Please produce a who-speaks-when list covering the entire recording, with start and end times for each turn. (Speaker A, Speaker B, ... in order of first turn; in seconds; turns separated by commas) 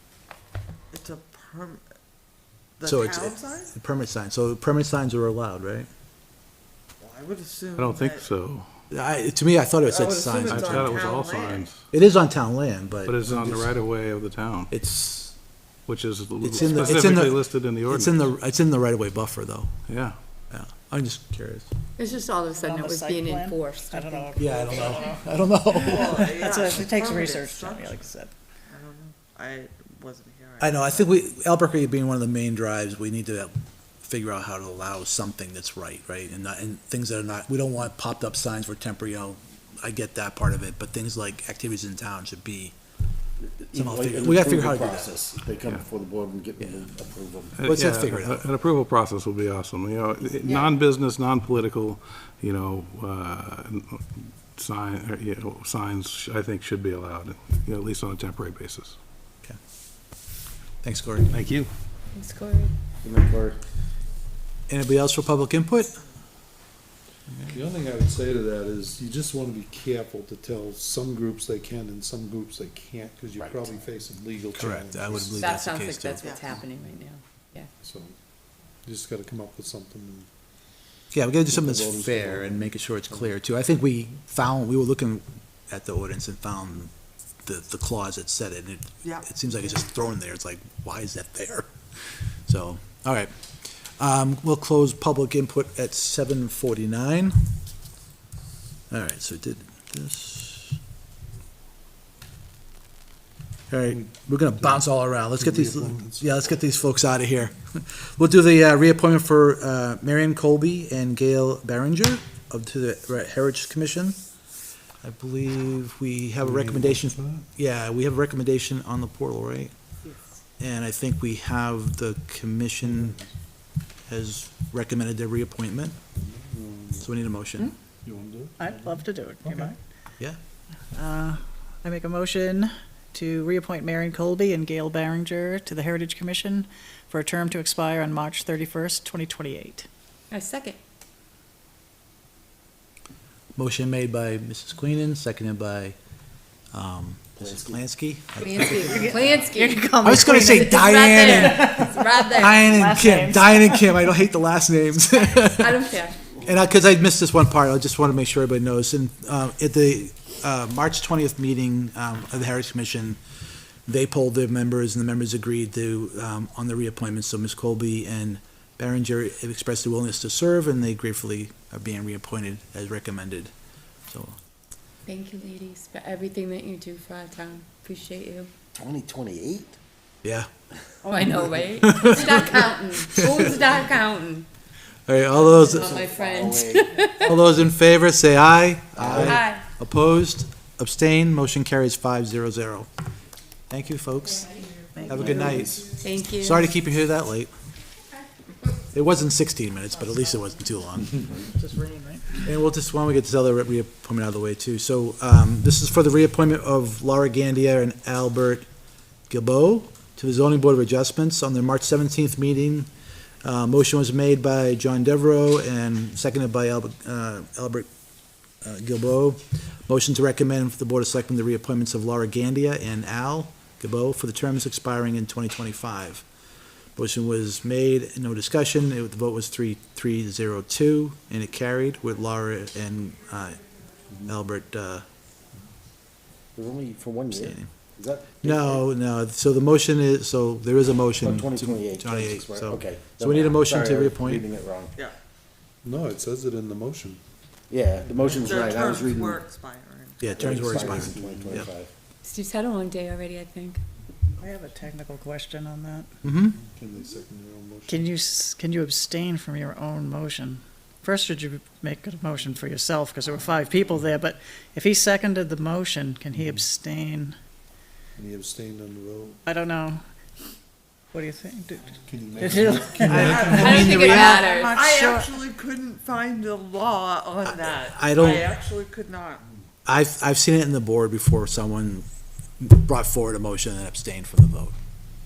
Speaker A: 0.9-1.8, Speaker A: 2.8-3.7, Speaker B: 2.8-5.9, Speaker A: 7.0-8.3, Speaker C: 7.8-8.7, Speaker B: 8.9-11.0, Speaker A: 9.9-11.7, Speaker C: 10.5-11.8, Speaker B: 11.9-13.2, Speaker C: 13.1-14.7, Speaker D: 13.2-13.7, Speaker B: 14.7-15.3, Speaker C: 15.8-18.3, Speaker B: 16.4-19.7, Speaker C: 19.9-20.1, Speaker B: 20.5-21.7, Speaker E: 22.0-24.5, Speaker F: 22.5-28.3, Speaker B: 24.4-26.4, Speaker A: 25.7-28.1, Speaker A: 28.7-31.2, Speaker B: 30.6-42.7, Speaker G: 43.5-47.5, Speaker B: 43.7-45.1, Speaker C: 47.6-59.0, Speaker B: 47.6-48.5, Speaker A: 50.4-50.7, Speaker B: 60.8-61.3, Speaker C: 61.3-61.7, Speaker E: 62.1-62.7, Speaker G: 63.0-63.6, Speaker B: 64.7-66.0, Speaker D: 67.5-75.5, Speaker G: 73.4-73.6, Speaker B: 74.5-76.3, Speaker E: 75.3-77.7, Speaker A: 76.2-76.6, Speaker D: 77.8-78.1, Speaker D: 78.8-80.3, Speaker B: 81.1-86.9, Speaker G: 81.5-82.6, Speaker B: 87.4-91.8, Speaker A: 89.0-89.3, Speaker B: 92.5-93.3, Speaker B: 94.0-97.4, Speaker B: 98.9-100.8, Speaker B: 103.7-114.2, Speaker D: 103.9-106.3, Speaker B: 115.0-119.7, Speaker D: 116.4-117.5, Speaker B: 120.6-123.2, Speaker D: 122.8-123.3, Speaker B: 124.1-126.0, Speaker D: 126.1-127.1, Speaker B: 127.0-127.7, Speaker D: 128.0-129.7, Speaker F: 128.6-129.8, Speaker F: 130.9-139.9, Speaker E: 140.3-140.8, Speaker B: 143.6-145.9, Speaker B: 146.7-149.1, Speaker G: 147.4-147.8, Speaker E: 148.4-152.9, Speaker F: 148.8-150.7, Speaker B: 150.0-155.8, Speaker F: 152.7-154.0, Speaker E: 155.3-156.2, Speaker B: 156.4-163.2, Speaker B: 163.9-173.5, Speaker B: 174.1-174.3, Speaker E: 175.1-178.5, Speaker G: 178.7-179.8, Speaker E: 181.0-184.5, Speaker B: 181.8-182.5, Speaker B: 183.1-183.5, Speaker B: 185.1-186.0, Speaker E: 185.3-187.3, Speaker G: 185.7-187.1, Speaker B: 187.2-192.9, Speaker G: 189.0-189.4, Speaker E: 189.1-189.6, Speaker B: 193.7-197.5, Speaker F: 194.9-195.7, Speaker G: 195.1-195.9, Speaker E: 196.0-196.7, Speaker B: 198.9-201.2, Speaker F: 199.9-200.5, Speaker F: 201.4-202.5, Speaker B: 202.4-208.6, Speaker B: 209.3-212.9, Speaker B: 213.4-217.9, Speaker B: 218.6-226.2, Speaker B: 226.9-233.6, Speaker B: 234.2-235.0, Speaker G: 236.5-238.8, Speaker B: 237.3-237.7, Speaker B: 238.4-244.4, Speaker G: 241.2-244.9, Speaker D: 245.8-247.2, Speaker G: 247.7-249.4, Speaker A: 248.3-250.5, Speaker B: 250.2-251.7, Speaker G: 250.3-251.9, Speaker D: 250.5-251.7, Speaker E: 252.2-253.8, Speaker F: 254.4-256.1, Speaker B: 256.2-256.6, Speaker D: 256.5-258.1, Speaker F: 257.9-267.3, Speaker D: 268.1-269.4, Speaker F: 269.4-270.0, Speaker F: 271.1-273.7, Speaker D: 272.0-273.9, Speaker B: 273.0-274.4, Speaker A: 273.2-279.4, Speaker E: 273.4-275.2, Speaker B: 277.4-278.5, Speaker B: 279.9-282.0, Speaker B: 282.6-284.7